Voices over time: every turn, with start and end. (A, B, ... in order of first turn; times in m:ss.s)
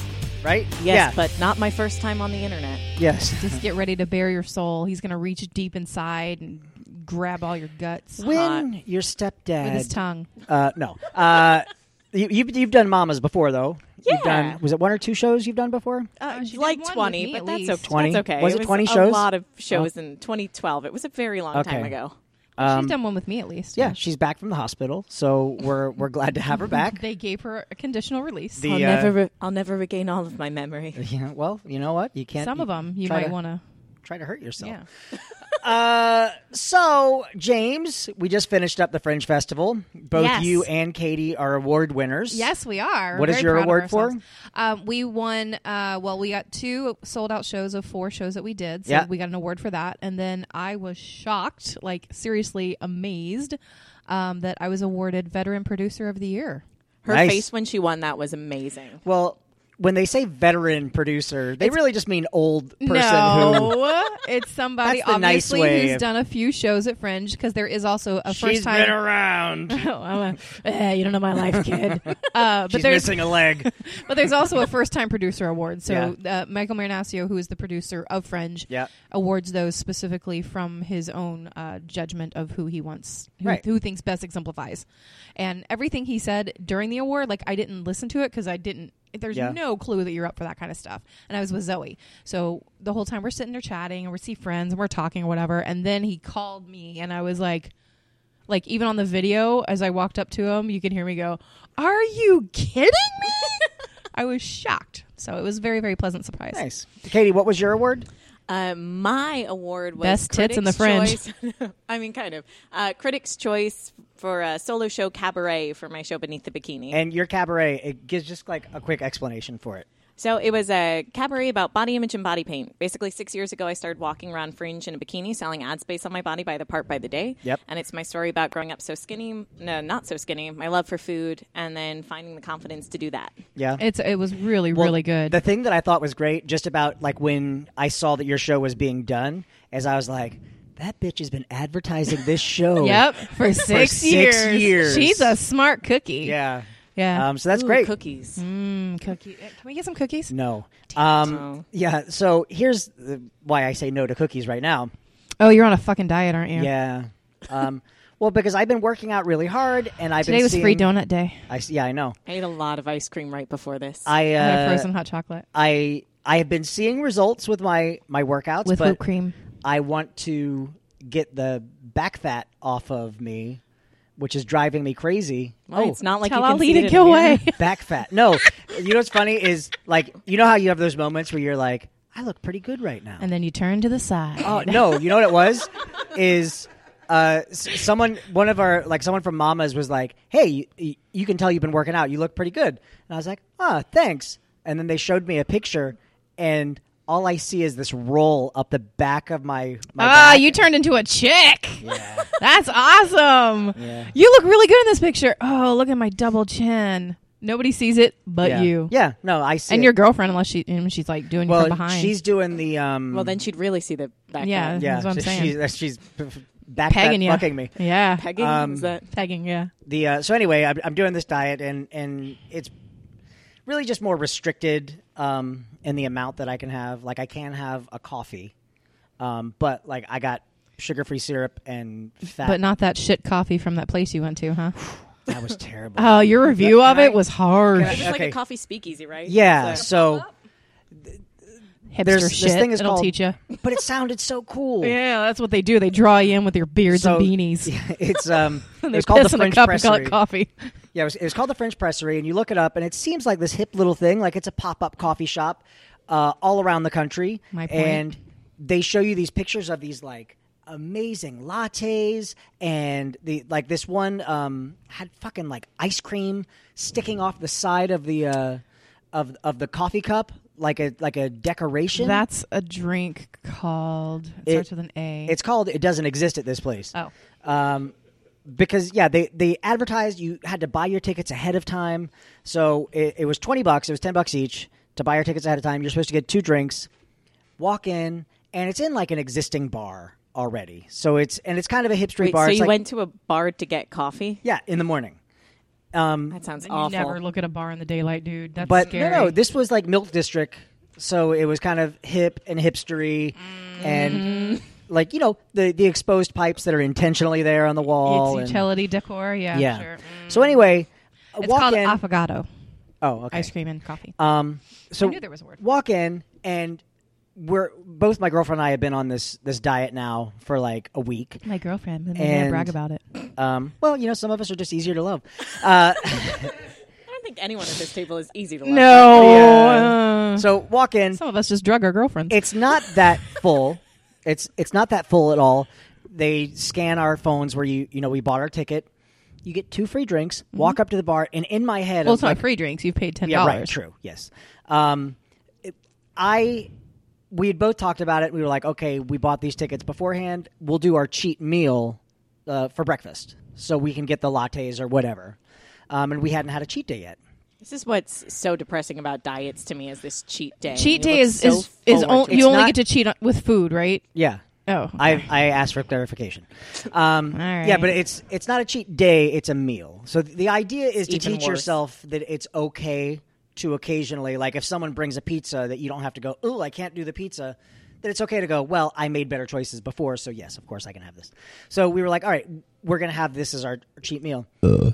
0:00.4-0:01.2 A
0:00.8-0:02.8 B
0:03.0-0:03.6 A
0:03.4-0:08.3 C
0:08.2-0:09.9 A
0:08.2-0:08.6 B
0:09.6-0:10.3 C
0:10.5-0:16.1 A
0:14.0-0:14.6 B
0:16.2-0:22.1 B
0:16.3-0:18.2 C
0:17.8-0:19.9 A
0:21.5-0:21.9 A
0:22.6-0:22.9 A
0:22.6-0:23.9 C
0:23.8-0:27.0 A
0:26.7-0:29.0 C
0:28.6-0:29.2 A
0:28.7-0:31.0 B
0:31.0-0:33.4 A
0:32.4-0:33.6 C
0:34.0-0:34.8 A
0:34.6-0:34.8 C
0:35.5-0:42.5 A
0:40.1-0:40.7 C
0:42.3-0:56.6 C
0:43.1-0:44.2 A
0:57.0-0:59.0 B
0:57.1-0:57.5 A
0:59.0-1:03.8 A
1:02.8-1:09.0 C
1:04.8-1:06.0 A
1:08.3-1:09.8 A
1:09.7-1:37.7 C
1:11.5-1:12.0 A
1:12.6-1:13.7 A
1:15.9-1:16.1 A
1:38.5-1:46.6 C
1:46.5-1:48.0 A
1:48.5-1:57.0 B
1:50.0-1:51.2 C
1:56.9-1:59.8 A
2:00.2-2:13.4 B
2:13.6-2:13.8 A
2:13.8-2:15.4 C
2:14.7-2:25.4 A
2:22.8-2:26.4 C
2:26.2-2:27.9 A
2:27.0-2:27.3 C
2:27.5-2:28.4 B
2:28.4-2:30.3 C
2:30.3-2:34.9 A
2:31.2-2:31.6 B
2:35.4-2:36.7 C
2:36.6-2:40.9 A
2:40.2-2:41.5 C
2:41.5-2:42.2 A
2:42.3-2:44.1 B
2:44.0-2:44.9 A
2:44.4-2:45.4 C
2:45.5-2:49.0 A
2:48.6-2:49.3 C
2:49.6-2:53.6 A
2:54.2-2:56.0 A
2:55.7-2:57.5 B
2:56.2-2:57.6 C
2:57.6-3:03.2 A
3:03.2-3:05.0 C
3:04.4-3:20.6 A
3:20.0-3:28.9 C
3:21.8-3:22.3 A
3:23.8-3:24.1 A
3:28.4-3:29.9 A
3:29.7-3:32.1 C
3:31.4-3:33.4 A
3:33.1-3:34.8 B
3:34.4-3:35.5 C
3:34.8-3:37.7 A
3:36.9-3:38.3 C
3:38.2-3:39.1 B
3:38.4-3:38.9 A
3:39.1-3:39.7 C
3:39.8-3:42.7 A
3:43.6-3:48.5 A
3:49.2-3:52.6 A
3:52.4-3:54.8 C
3:55.2-3:57.2 A
3:56.0-3:58.0 C
3:57.7-3:58.4 A
3:57.8-3:59.9 B
3:59.2-4:00.2 A
4:01.9-4:03.4 C
4:02.0-4:05.0 A
4:04.8-4:07.7 C
4:06.9-4:10.2 A
4:08.8-4:10.5 C
4:10.9-4:32.2 A
4:17.5-4:18.0 C
4:31.9-4:35.4 C
4:35.3-4:36.9 A
4:37.4-4:37.9 A
4:38.4-4:46.9 A
4:47.6-4:52.8 A
4:52.2-4:54.4 B
4:54.4-4:55.2 A
4:55.9-4:56.4 A
4:56.3-4:57.2 B
4:56.6-4:59.4 C
4:58.6-5:04.3 A
4:58.7-4:59.1 B
5:03.6-5:04.6 C
5:03.8-5:04.6 B
5:04.8-5:08.7 A
5:08.0-5:10.3 C
5:09.5-5:12.0 A
5:11.4-5:12.5 C
5:13.0-5:13.5 A
5:13.3-5:14.2 C
5:14.2-5:16.8 A
5:15.0-5:15.6 C
5:17.4-5:21.4 A
5:21.4-5:23.0 C
5:22.1-5:22.7 A
5:23.4-5:26.6 A
5:27.1-5:29.6 B
5:28.6-5:30.4 C
5:29.1-5:31.2 A
5:31.1-5:32.4 C
5:32.3-5:38.9 A
5:39.4-5:42.4 A
5:42.0-5:43.7 C
5:43.2-5:46.7 A
5:47.3-5:55.4 A
5:55.9-5:57.2 A
5:57.6-6:02.6 B
6:00.7-6:04.0 C
6:01.9-6:02.8 A
6:04.1-6:04.4 A
6:04.7-6:05.3 C
6:05.0-6:24.5 A
6:07.3-6:07.9 C
6:11.1-6:11.7 B